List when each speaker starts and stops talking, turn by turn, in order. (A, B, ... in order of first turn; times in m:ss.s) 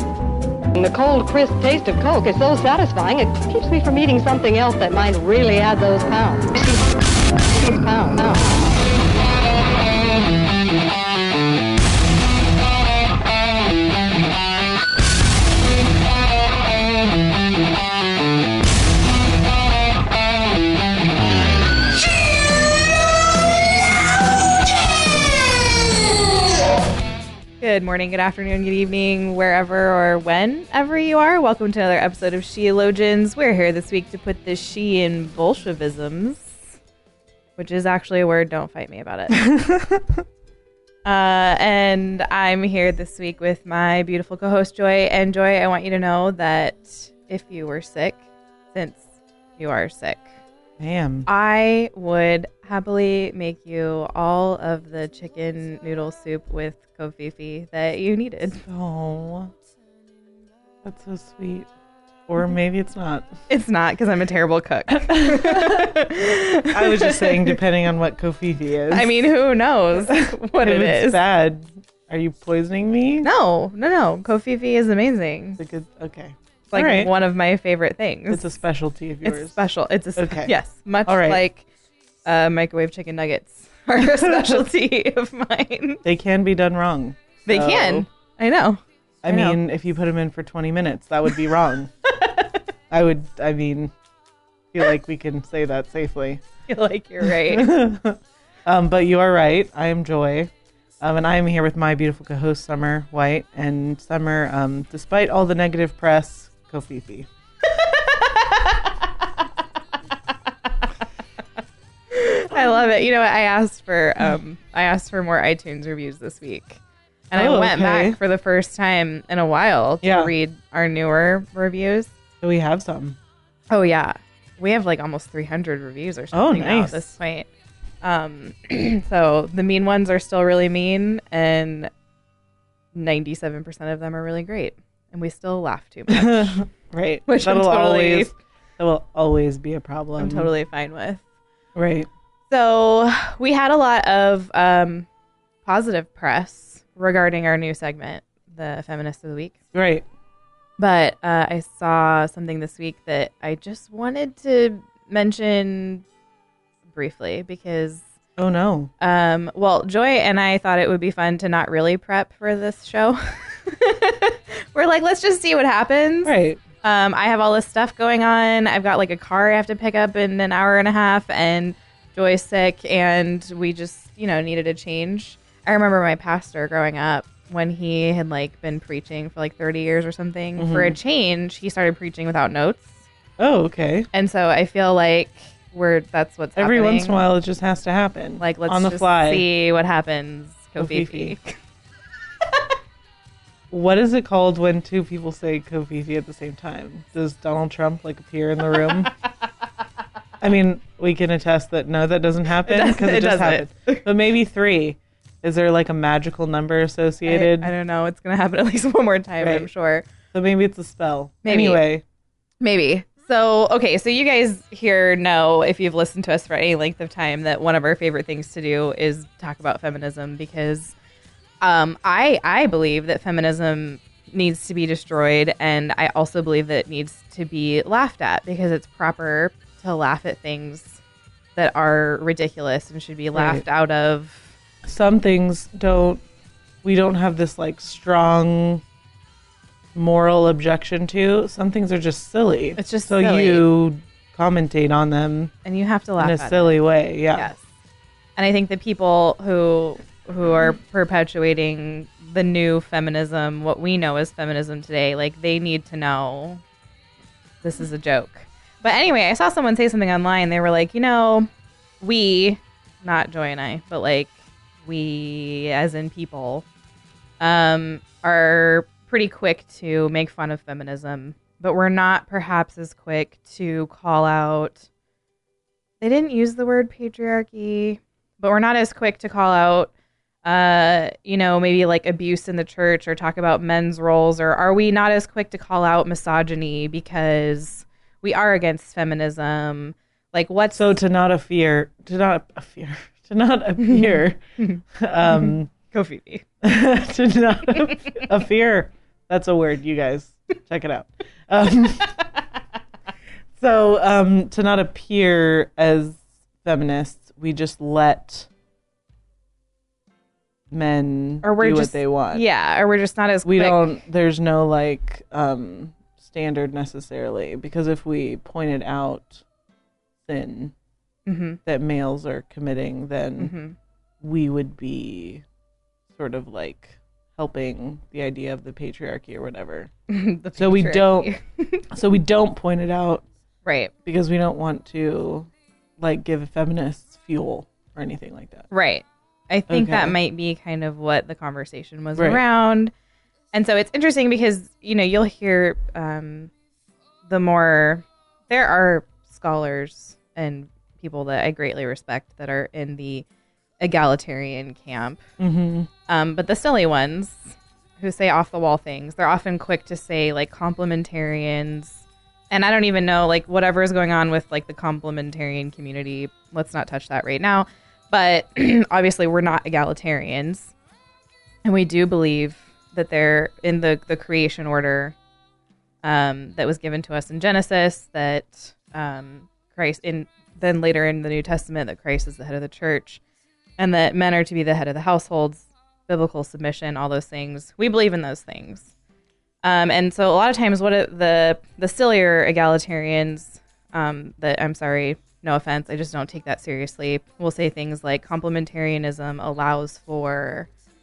0:00.8-0:06.8 A
0:07.5-0:08.6 A
0:27.6-0:36.5 B
0:37.6-0:39.4 B
0:39.4-0:40.1 C
0:41.0-0:48.2 B
0:48.7-0:50.3 B
0:50.8-0:51.3 C
0:51.3-0:58.6 B
0:58.6-0:59.5 C
1:00.8-1:01.7 C
1:02.3-1:03.3 C
1:03.5-1:07.6 B
1:05.0-1:06.0 C
1:06.7-1:09.1 C
1:08.9-1:11.2 B
1:10.0-1:13.3 C
1:13.2-1:15.6 B
1:15.6-1:17.1 C
1:16.7-1:18.4 B
1:18.3-1:19.6 C
1:19.2-1:21.6 B
1:20.2-1:20.5 C
1:21.0-1:21.4 C
1:22.2-1:26.0 B
1:24.0-1:24.7 C
1:26.0-1:28.0 C
1:27.5-1:29.6 B
1:29.2-1:31.9 C
1:32.2-1:32.5 B
1:32.9-1:33.9 C
1:34.7-1:36.4 C
1:36.7-1:37.8 B
1:37.2-1:47.3 C
1:47.7-1:48.8 B
1:52.1-2:02.1 B
1:57.3-1:58.2 C
2:00.0-2:00.3 C
2:02.4-2:03.2 C
2:03.7-2:07.5 B
2:06.3-2:07.1 C
2:08.0-2:11.9 B
2:12.9-2:16.7 B
2:16.1-2:20.5 C
2:17.3-2:18.3 B
2:20.2-2:21.2 B
2:21.8-2:22.1 C
2:22.5-2:25.1 B
2:25.6-2:29.6 B
2:29.7-2:30.0 C
2:30.8-2:36.0 B
2:36.9-2:38.0 B
2:38.4-2:38.9 C
2:39.0-3:03.0 B
2:46.2-2:46.6 C
3:00.6-3:01.0 C
3:03.4-3:04.1 C
3:04.1-3:07.2 B
3:06.6-3:09.5 C
3:08.4-3:11.6 B
3:10.8-3:11.3 C
3:13.7-3:19.1 C
3:20.4-3:27.7 C
3:22.6-3:24.0 B
3:27.2-3:30.0 B
3:29.4-3:29.7 C
3:30.3-3:32.0 C
3:31.4-3:31.8 B
3:32.6-3:40.9 B
3:41.6-3:51.0 B
3:51.6-3:54.5 B
3:53.3-3:53.6 C
3:54.8-3:56.2 C
3:56.8-3:58.8 C
3:59.9-4:05.5 C
4:02.8-4:03.6 B
4:05.6-4:06.8 B
4:06.2-4:07.5 C
4:07.3-4:07.6 B
4:08.4-4:16.6 B
4:17.6-4:21.5 B
4:22.0-4:26.7 B
4:27.4-4:34.8 B
4:36.0-4:39.9 B
4:40.4-4:51.0 B
4:50.7-4:54.4 C
4:53.8-4:56.4 B
4:54.9-4:55.7 C
4:56.6-5:02.2 C
5:03.6-5:08.5 C
5:10.7-5:12.4 C
5:11.4-5:14.0 B
5:13.4-5:19.4 C
5:20.2-5:20.7 C
5:21.3-5:21.6 B
5:21.6-5:23.5 C
5:23.4-5:23.8 B
5:24.2-5:25.4 C
5:26.1-5:29.9 C
5:30.1-5:31.9 B
5:30.6-5:31.3 C
5:31.9-5:33.2 C
5:33.6-5:33.9 B
5:34.0-5:38.7 C
5:38.7-5:42.9 B
5:39.7-5:40.2 C
5:42.2-5:42.4 C
5:43.5-5:46.5 B
5:47.3-5:53.3 B
5:53.8-5:55.2 B
5:55.4-5:55.9 C
5:56.1-5:57.4 B
5:58.0-6:10.7 B
6:11.6-6:15.2 B
6:16.0-6:23.2 B
6:23.8-6:28.9 B
6:29.6-6:40.7 B